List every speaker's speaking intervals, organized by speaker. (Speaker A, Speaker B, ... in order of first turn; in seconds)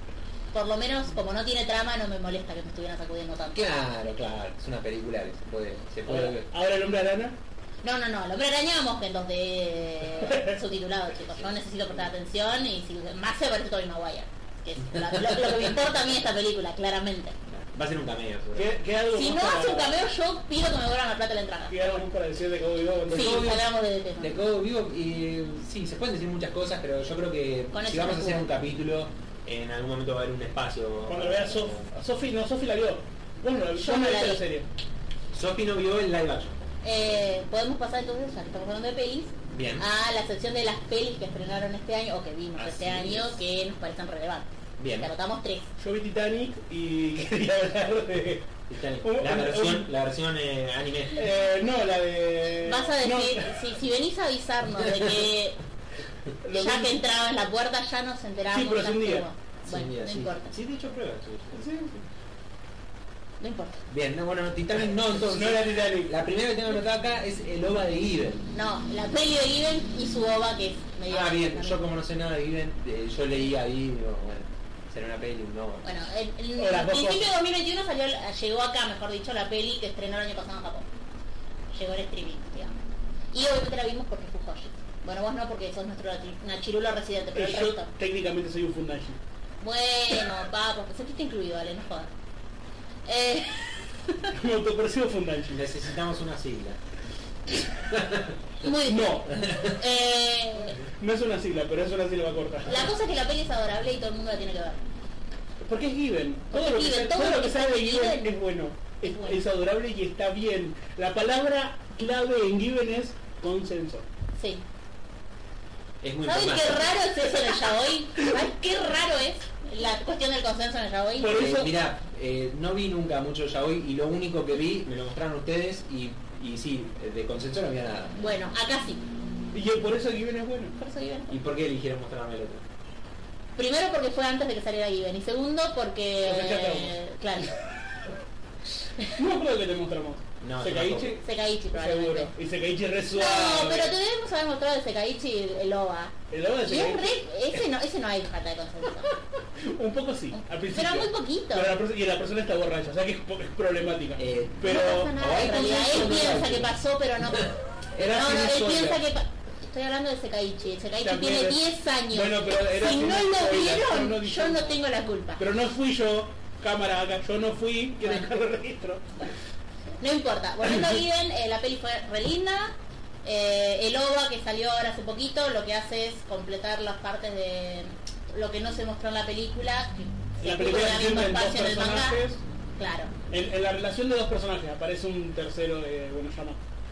Speaker A: 0.5-3.7, 7.8-17.4, 19.1-22.1, 23.1-24.4, 27.7-28.5, 33.8-34.4, 36.8-45.7, 52.6-55.6, 56.5-60.5, 63.4-63.8, 68.5-71.8, 75.8-80.9, 81.7-82.7, 83.3-87.9, 89.6-92.1, 93.1-94.3, 98.6-100.8, 102.7-104.8, 106.5-108.3, 109.0-109.4, 114.4-114.6, 116.2-121.4, 128.2-129.0, 130.8-131.4, 133.6-137.6, 141.2-142.3, 143.1-146.1, 146.7-149.2, 150.3-151.8, 154.6-165.4, 170.0-182.2, 182.8-183.1
Speaker B: 3.5-6.5, 15.0-15.4, 17.5-18.8, 23.1-23.7, 24.2-31.9, 35.3-36.7, 39.5-39.9, 42.6-43.4, 44.8-45.1, 48.7-51.3, 59.7-61.6, 63.9-68.5, 71.1-75.9, 95.5-96.8, 97.8-98.4, 99.4-99.8, 116.0-117.1, 121.3-128.2, 131.3-132.6, 140.4-141.2, 154.2-156.8
Speaker C: 6.1-7.3, 18.6-20.0, 21.7-23.6, 31.1-34.7, 45.8-48.5, 49.0-49.9, 51.1-53.6, 56.4-57.0, 58.5-59.3, 61.5-62.0, 65.1-66.1, 76.6-77.3, 87.3-89.2, 94.3-95.7, 98.8-99.3, 100.8-102.9, 105.6-114.1, 121.2-121.7, 129.5-130.8, 136.2-137.0, 139.1-143.9, 146.3-147.2, 149.6-155.1, 157.9-159.0, 161.0-164.8, 165.4-169.1, 180.4-182.4, 183.3-186.6